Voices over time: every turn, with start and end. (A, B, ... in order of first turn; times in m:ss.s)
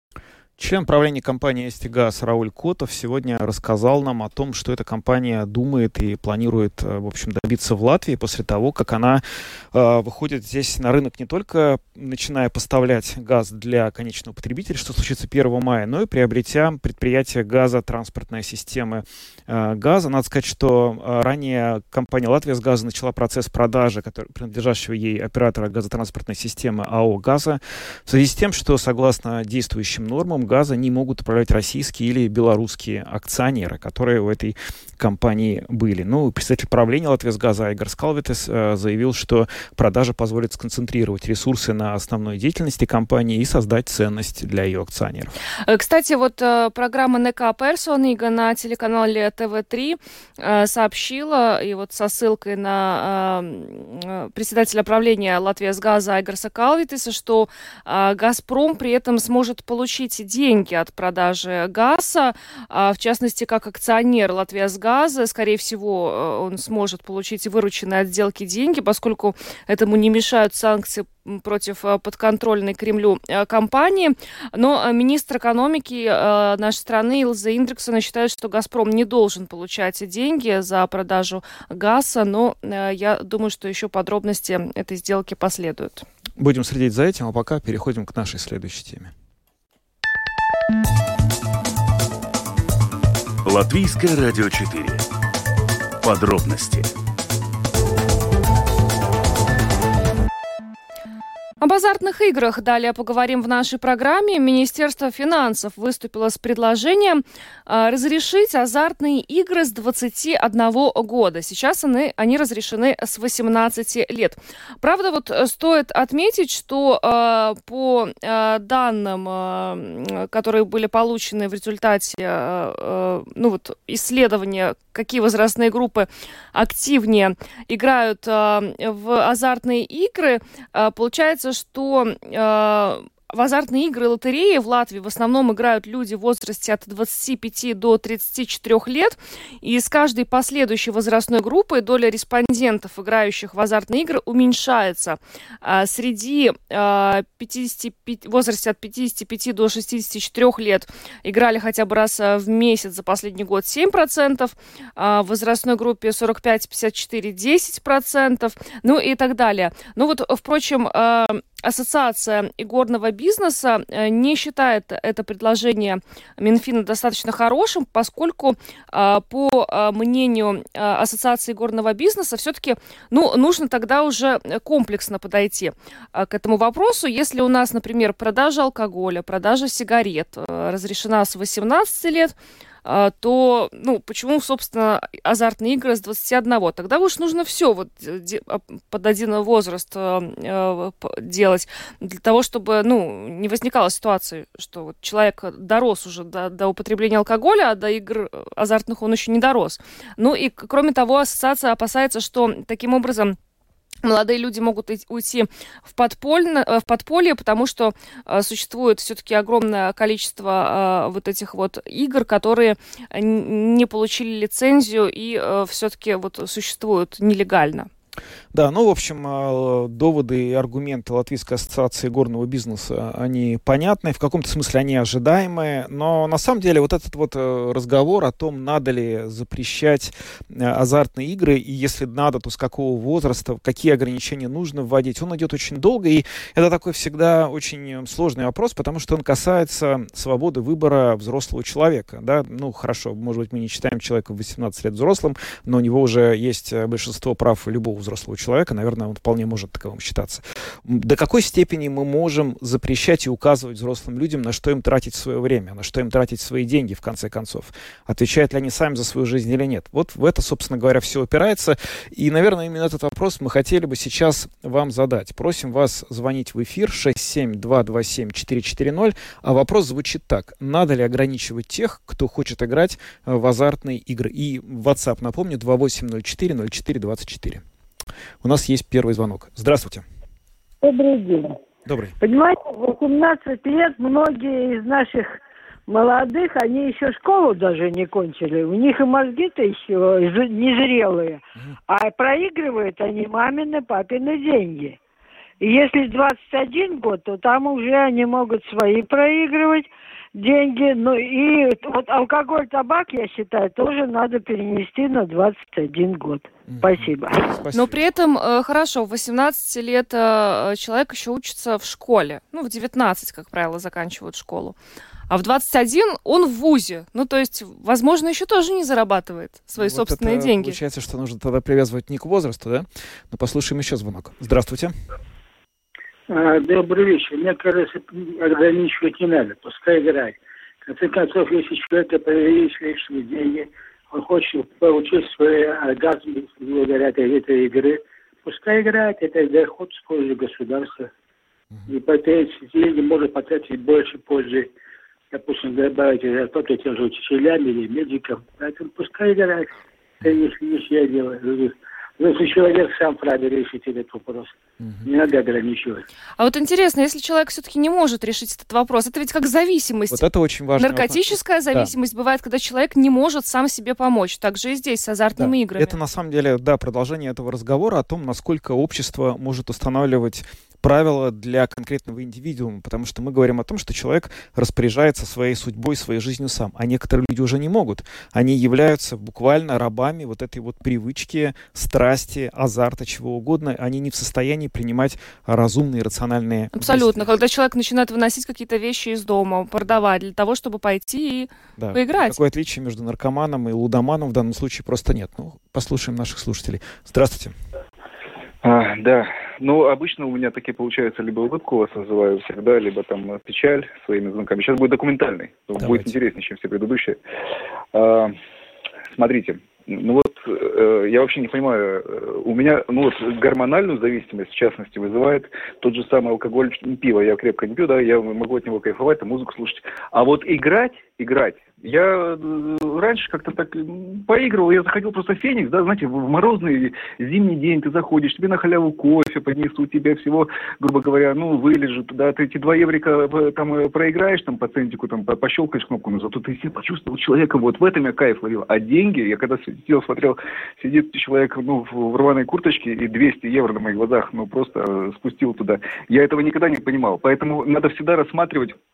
0:00.6-0:45.4 A
0:45.7-1:26.1 B
1:26.4-1:29.1 A
1:33.4-1:35.0 C
1:36.0-1:36.9 C
1:41.6-3:23.4 B
3:24.0-3:37.9 B
3:38.5-4:37.6 A
4:38.4-4:40.0 A
4:40.8-4:41.6 D
4:41.9-4:42.2 A
4:42.2-4:55.0 D
4:55.6-5:07.4 D
5:06.7-5:08.0 A
5:07.7-5:14.8 B
5:15.3-5:20.8 B
5:19.8-5:24.9 A
5:26.3-5:41.1 E
5:41.9-5:44.7 E
5:45.3-5:56.0 E
5:56.4-6:00.2 B
6:00.1-6:01.9 A
6:00.8-6:05.9 B
6:05.4-6:27.3 A
6:26.8-6:32.4 B
6:31.8-6:37.6 A
6:38.6-6:47.2 F
6:45.8-6:46.2 A
6:47.9-6:48.4 F
6:49.1-7:28.8 F